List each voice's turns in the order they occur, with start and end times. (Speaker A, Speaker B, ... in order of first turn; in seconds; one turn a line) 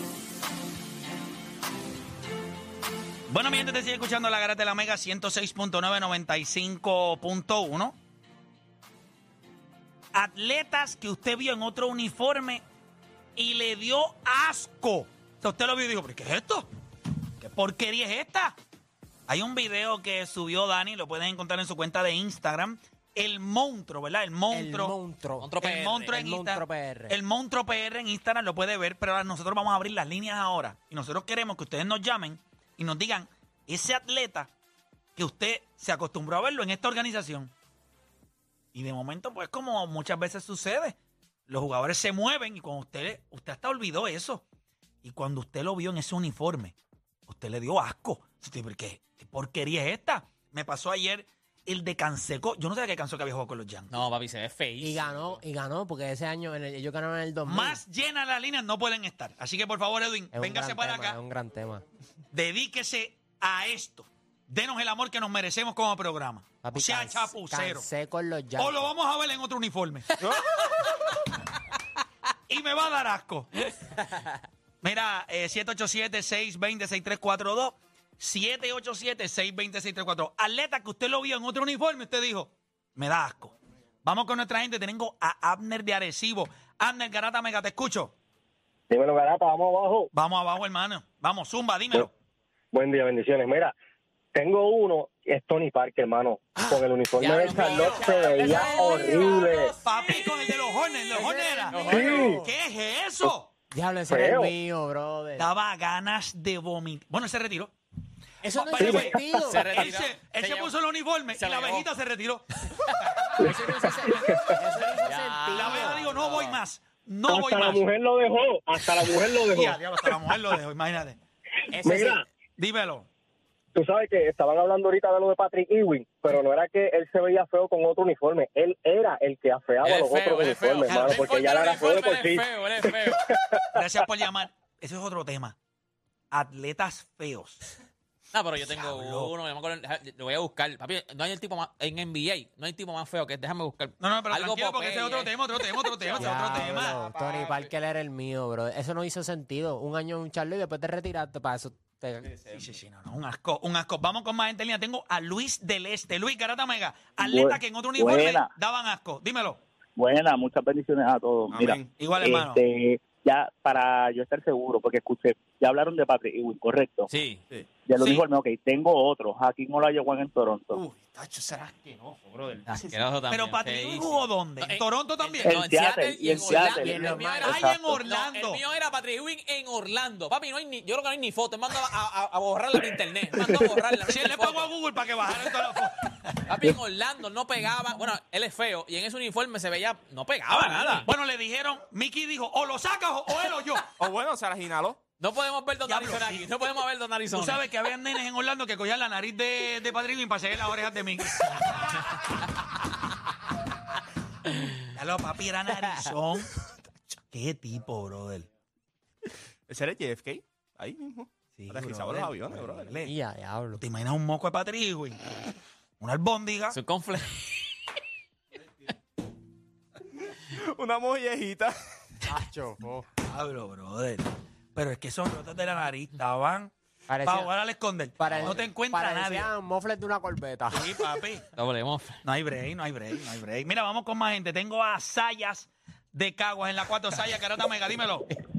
Speaker A: 3.3-8.0
Speaker A: 10.1-12.6
Speaker A: 13.3-16.7
Speaker A: 17.4-18.6
Speaker A: 19.3-25.0
Speaker B: 24.5-25.6
Speaker C: 25.4-26.2
Speaker A: 25.6-34.5
Speaker B: 26.1-27.1
Speaker A: 35.1-37.5
Speaker A: 38.7-41.0
Speaker A: 41.5-44.4
Speaker A: 45.0-46.8
Speaker A: 47.3-53.9
Speaker C: 53.9-55.2
Speaker B: 54.8-57.8
Speaker A: 57.5-61.2
Speaker B: 60.3-61.8
Speaker A: 62.3-67.9
Speaker B: 66.6-68.9
Speaker A: 68.6-70.2
Speaker A: 72.5-73.5
Speaker A: 74.8-88.1
Speaker D: 88.9-90.1
Speaker A: 90.1-92.1
Speaker D: 92.7-93.7
Speaker D: 94.3-99.7
Speaker A: 96.6-96.8
Speaker B: 97.2-99.5
Speaker C: 97.2-100.3
Speaker A: 99.8-103.5
Speaker B: 101.1-102.5
Speaker C: 101.7-102.3
Speaker D: 101.9-102.4
Speaker B: 103.7-105.5
Speaker D: 104.1-104.5
Speaker A: 105.4-107.7
Speaker B: 108.4-109.9
Speaker A: 108.5-112.6
Speaker D: 108.8-109.5
Speaker C: 109.4-110.7
Speaker C: 111.3-111.9
Speaker B: 113.4-116.0
Speaker D: 114.1-114.6
Speaker C: 115.0-116.6
Speaker A: 115.5-117.8
Speaker D: 117.3-120.2
Speaker A: 119.2-121.2
Speaker B: 121.7-122.2
Speaker D: 121.8-122.2
Speaker A: 122.6-123.1
Speaker D: 123.7-133.8
Speaker C: 129.8-133.3
Speaker A: 130.8-131.4
Speaker A: 133.7-135.6
Speaker A: 136.3-137.6
Speaker C: 138.3-146.5
Speaker A: 138.6-139.3
Speaker A: 144.0-147.0
Speaker B: 146.2-152.4
Speaker E: 146.2-147.6
Speaker A: 152.5-159.6
Speaker F: 157.2-158.5
Speaker F: 159.9-167.1
Speaker E: 161.5-161.9
Speaker A: 162.0-162.6
Speaker C: 167.1-167.4
Speaker F: 167.8-170.8
Speaker A: 168.0-168.2
Speaker E: 170.7-173.0
Speaker C: 172.7-184.7
Speaker A: 173.3-175.6
Speaker F: 175.4-177.2
Speaker B: 176.6-177.7
Speaker A: 177.4-178.6
Speaker A: 184.1-186.5
Speaker C: 186.5-191.1
Speaker A: 190.7-193.9
Speaker E: 194.0-195.0
Speaker C: 195.2-197.6
Speaker A: 195.8-196.5
Speaker A: 197.3-202.3
Speaker A: 204.9-206.5
Speaker A: 207.3-208.4
Speaker E: 209.7-213.0
Speaker A: 211.6-213.1
Speaker B: 213.0-213.8
Speaker A: 213.8-215.2
Speaker A: 216.0-216.8
Speaker C: 216.7-217.7
Speaker E: 220.3-221.7
Speaker B: 222.2-223.1
Speaker A: 223.2-226.7
Speaker B: 227.1-227.5
Speaker A: 227.2-229.5
Speaker B: 228.2-231.2
Speaker A: 230.7-231.5
Speaker C: 231.5-232.2
Speaker A: 232.2-238.3